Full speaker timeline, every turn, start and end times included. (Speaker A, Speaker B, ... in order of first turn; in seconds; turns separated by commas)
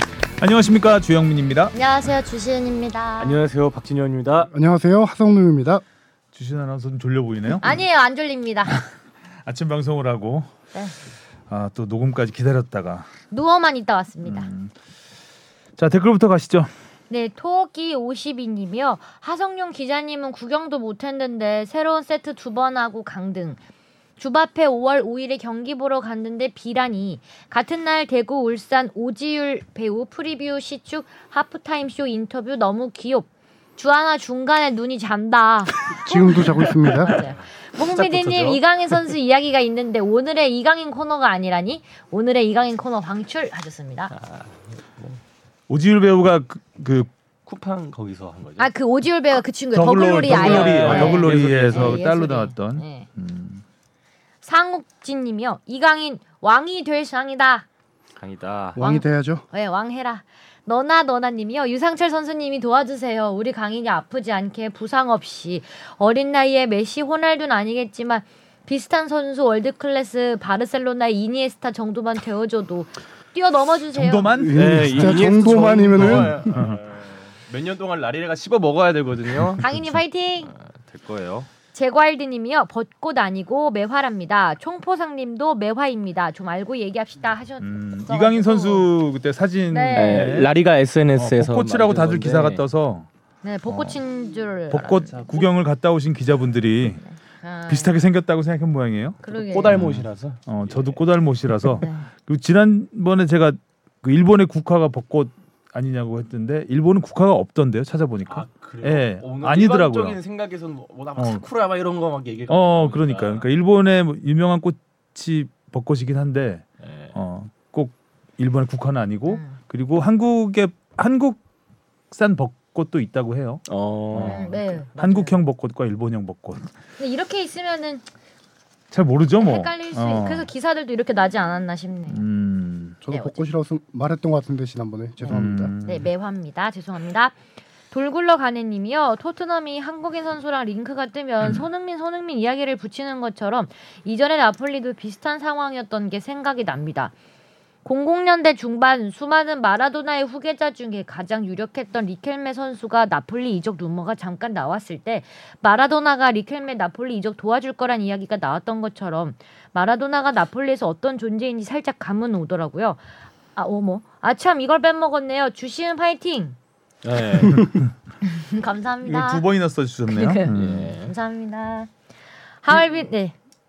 Speaker A: 0.4-1.8, Speaker B: 1.7-3.4, Speaker C: 3.2-4.5, Speaker D: 4.5-5.8, Speaker A: 6.3-7.8, Speaker B: 7.6-8.8, Speaker A: 9.4-10.5, Speaker A: 11.5-13.1, Speaker B: 13.3-14.5, Speaker A: 14.2-14.7, Speaker A: 15.8-16.7, Speaker B: 17.1-23.6, Speaker B: 24.2-44.1, Speaker D: 36.0-37.2, Speaker C: 37.8-39.0, Speaker C: 44.1-45.2, Speaker A: 45.7-47.1, Speaker C: 47.5-48.7, Speaker B: 48.6-53.1, Speaker A: 49.7-53.6, Speaker C: 50.2-52.0, Speaker B: 54.4-57.7, Speaker C: 58.2-58.8, Speaker D: 58.8-59.5, Speaker B: 58.8-74.4, Speaker A: 73.9-76.8, Speaker D: 74.2-76.6, Speaker C: 74.5-79.7, Speaker B: 79.6-80.5, Speaker C: 80.5-81.5, Speaker B: 81.7-88.9, Speaker A: 87.6-90.5, Speaker B: 89.7-90.3, Speaker C: 89.9-92.7, Speaker A: 91.2-93.1, Speaker B: 93.4-95.5, Speaker A: 93.7-94.0, Speaker A: 94.7-97.0, Speaker B: 97.0-97.9, Speaker A: 97.7-110.2, Speaker B: 99.2-99.8, Speaker C: 99.3-101.0, Speaker B: 101.8-102.1, Speaker C: 108.3-113.5, Speaker A: 111.2-111.4, Speaker A: 112.5-121.4, Speaker C: 116.8-117.2, Speaker B: 119.3-119.6, Speaker A: 122.1-126.7, Speaker C: 123.7-124.4, Speaker B: 124.2-125.4, Speaker B: 127.0-128.0, Speaker A: 128.9-130.5, Speaker B: 129.4-132.2, Speaker A: 132.1-133.0, Speaker D: 133.0-135.7, Speaker A: 135.2-136.1, Speaker B: 135.8-137.3, Speaker B: 137.9-147.1, Speaker B: 147.8-163.0, Speaker B: 163.6-166.6, Speaker C: 167.0-167.7, Speaker B: 168.2-169.4, Speaker A: 169.0-170.9, Speaker B: 170.1-171.9, Speaker C: 170.5-171.1, Speaker B: 172.6-173.3